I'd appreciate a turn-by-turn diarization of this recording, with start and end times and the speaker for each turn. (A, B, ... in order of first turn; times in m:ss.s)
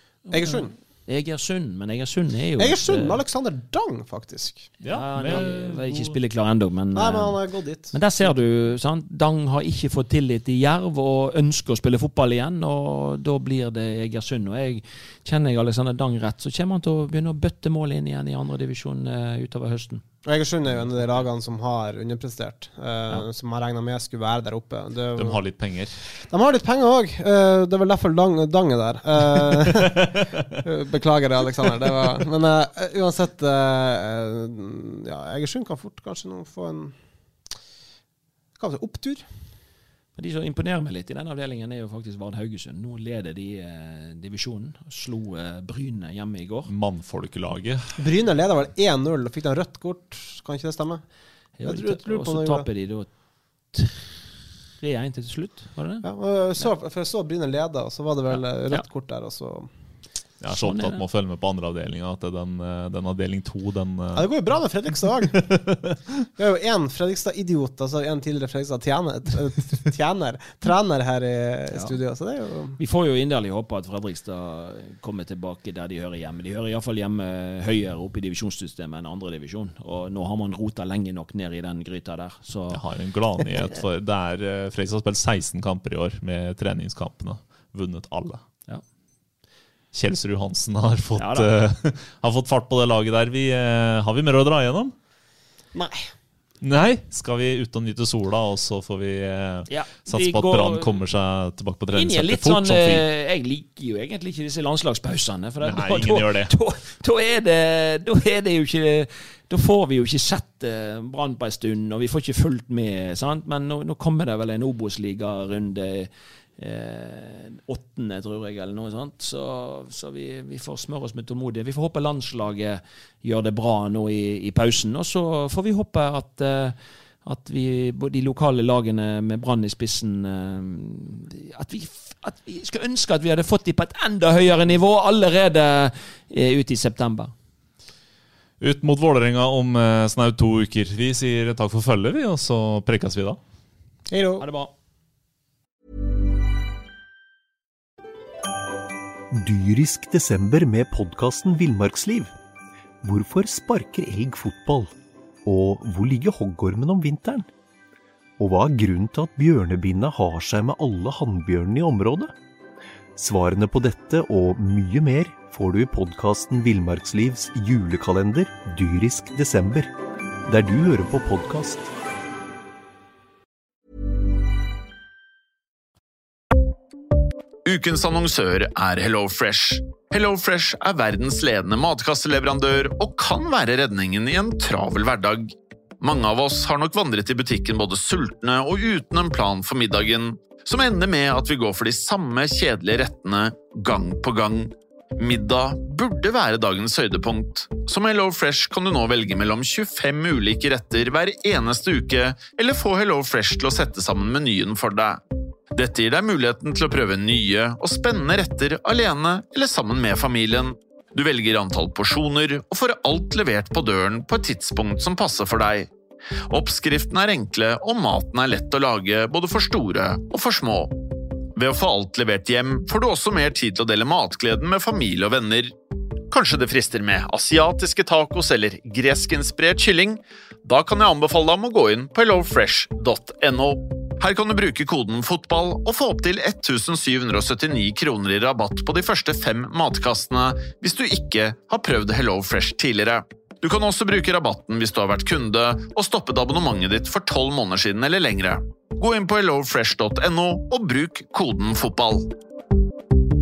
0:00.3-0:00.7 A
0:00.3-0:03.2 B
0:02.6-0:04.7 A
0:04.8-0:06.1 C
0:04.8-0:07.4 B
0:06.9-0:08.0 A
0:07.9-0:20.0 B
0:20.2-0:25.4 A
0:25.2-0:26.0 C
0:26.2-0:36.9 A
0:29.6-0:30.0 C
0:38.6-0:39.2 A
0:40.2-0:46.7 B
0:46.7-0:47.8 C
0:48.0-0:51.0 A
0:51.6-0:53.1 B
0:51.6-0:52.7 A
0:53.7-0:56.0 B
0:56.0-0:59.7 A
1:00.4-1:04.3 C
1:00.5-1:01.0 B
1:04.1-1:05.6 A
1:05.5-1:06.0 C
1:06.4-1:12.8 A
1:12.8-1:22.8 B
1:22.7-1:28.4 C
1:29.9-1:34.9 C
1:31.2-1:31.5 B
1:35.7-1:36.1 A
1:36.6-1:43.0 C
1:39.7-1:41.0 B
1:41.9-2:17.3 B
1:45.6-1:46.5 C
2:18.6-2:23.4 C
2:24.1-2:24.4 A
2:24.4-2:24.7 B
2:29.3-2:32.3 D
2:33.0-2:34.9 D
2:35.4-2:37.5 D
2:38.4-2:42.3 D
2:43.2-2:49.9 D
2:50.5-2:51.9 D
2:57.6-3:25.2 E
3:25.7-3:35.9 E
3:36.5-3:40.9 E
3:41.6-3:45.7 E
3:46.3-4:12.3 E